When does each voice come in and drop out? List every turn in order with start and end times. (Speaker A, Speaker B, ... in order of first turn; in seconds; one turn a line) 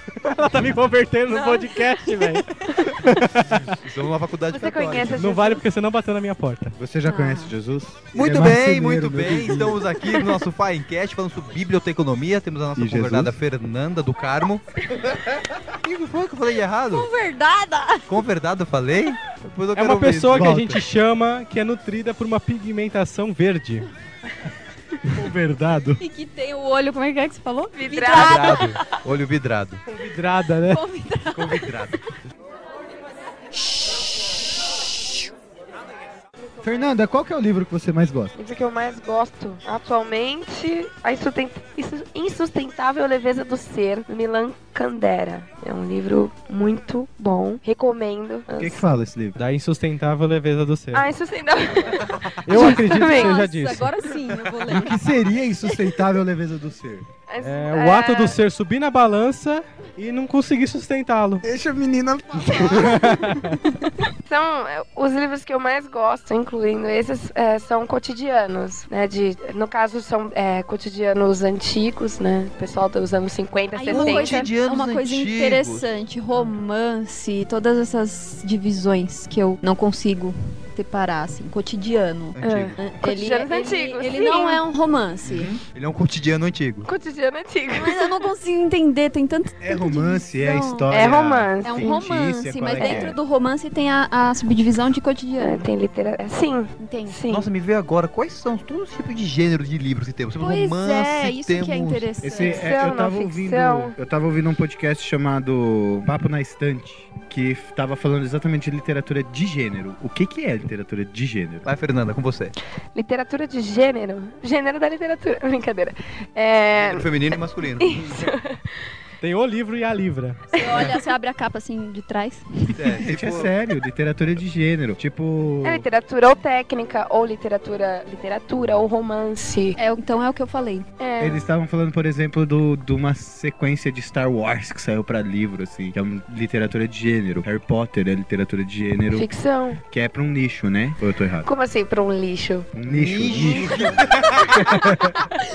Speaker A: 0.1-3.8
Speaker B: 1.3-2.0
Speaker C: 3.5-5.3
Speaker B: 4.5-5.6
Speaker A: 5.2-6.8
Speaker D: 6.8-10.1
Speaker E: 7.0-7.5
Speaker C: 8.1-14.6
Speaker D: 12.7-13.4
Speaker C: 15.7-17.1
Speaker E: 16.9-18.1
Speaker C: 18.1-20.6
Speaker A: 19.7-23.9
Speaker D: 20.3-20.8
Speaker D: 25.1-26.0
Speaker E: 26.0-29.0
Speaker B: 27.8-28.6
Speaker C: 28.1-29.8
Speaker A: 29.9-30.8
Speaker E: 30.6-31.9
Speaker C: 31.3-32.0
Speaker D: 36.6-38.3
Speaker B: 38.3-48.8
Speaker D: 48.5-49.4
Speaker A: 49.4-51.1
Speaker B: 50.9-53.4
Speaker A: 52.4-54.1
Speaker E: 52.6-55.1
Speaker D: 54.6-57.1
Speaker B: 57.3-58.4
Speaker A: 57.4-61.5
Speaker D: 61.4-63.5
Speaker A: 62.5-63.6
Speaker B: 64.2-74.5
Speaker E: 73.7-85.5
Speaker C: 73.9-75.9
Speaker C: 82.3-83.0
Speaker B: 82.4-84.6
Speaker C: 85.3-86.9
Speaker B: 86.8-88.3
Speaker E: 87.8-91.0
Speaker D: 89.6-93.2
Speaker B: 90.9-92.0
Speaker E: 91.6-95.7
Speaker B: 92.7-93.1
Speaker B: 95.4-97.5
Speaker E: 96.8-97.3
Speaker C: 97.3-102.1
Speaker E: 100.4-102.7
Speaker D: 102.2-111.7
Speaker B: 102.3-103.9
Speaker C: 111.6-112.5
Speaker B: 112.9-117.1
Speaker C: 116.7-118.3
Speaker B: 117.8-118.9
Speaker A: 119.2-120.5
Speaker E: 120.5-123.0
Speaker B: 120.6-120.9
Speaker C: 120.7-121.0
Speaker C: 122.7-123.5
Speaker D: 122.9-125.8
Speaker B: 125.6-129.8
Speaker E: 129.8-130.8
Speaker B: 131.0-131.4
Speaker D: 131.2-139.3
Speaker B: 139.1-139.8
Speaker D: 139.8-141.5
Speaker B: 141.4-142.7
Speaker D: 142.7-145.2
Speaker C: 142.9-144.7
Speaker B: 143.3-145.2